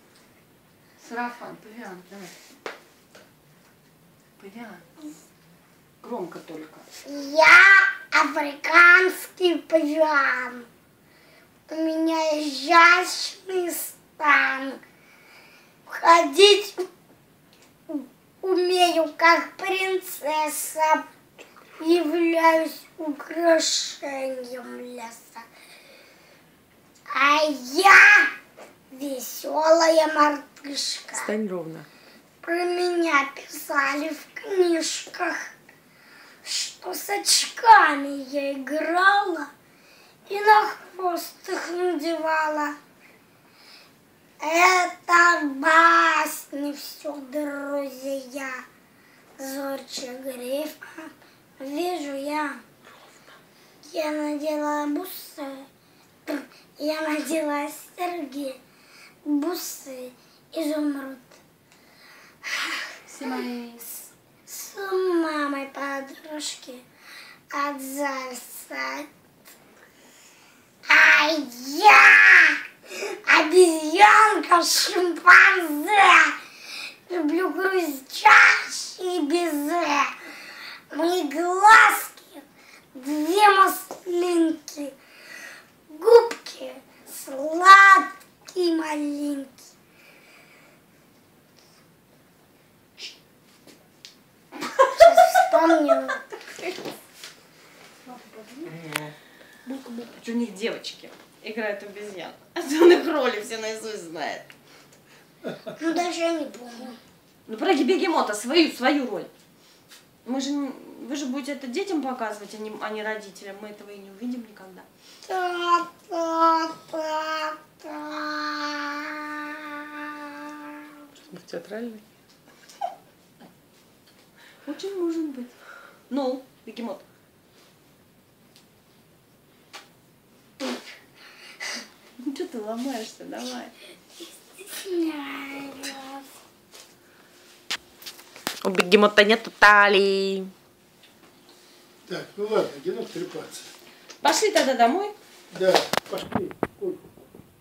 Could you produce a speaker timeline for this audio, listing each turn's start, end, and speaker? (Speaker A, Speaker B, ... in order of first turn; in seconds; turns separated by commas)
Speaker A: 1.0-2.4, Speaker A: 4.4-5.0, Speaker A: 6.0-6.9, Speaker B: 7.0-10.7, Speaker B: 11.7-14.8, Speaker B: 15.9-16.9, Speaker B: 17.9-21.1, Speaker B: 21.8-25.5, Speaker B: 27.1-28.3, Speaker B: 28.9-31.3, Speaker C: 31.1-31.9, Speaker B: 32.4-35.5, Speaker B: 36.4-39.5, Speaker B: 40.3-42.8, Speaker B: 44.4-48.6, Speaker B: 49.4-52.6, Speaker B: 53.8-55.7, Speaker B: 56.3-58.6, Speaker B: 59.2-61.4, Speaker B: 62.5-63.4, Speaker A: 63.1-63.9, Speaker B: 64.5-66.8, Speaker B: 67.5-69.1, Speaker B: 70.9-72.6, Speaker B: 73.1-76.4, Speaker B: 77.1-80.2, Speaker B: 80.9-84.9, Speaker B: 85.9-89.6, Speaker B: 94.8-96.2, Speaker A: 96.5-96.7, Speaker A: 98.1-98.8, Speaker A: 99.7-104.5, Speaker B: 105.7-107.0, Speaker A: 107.5-109.3, Speaker A: 110.2-114.9, Speaker B: 115.2-120.1, Speaker C: 121.3-122.0, Speaker A: 124.7-125.5, Speaker A: 126.1-127.0, Speaker A: 132.2-133.7, Speaker B: 134.6-136.2, Speaker C: 138.6-140.5, Speaker D: 142.1-143.6, Speaker A: 144.2-145.1, Speaker D: 145.5-147.0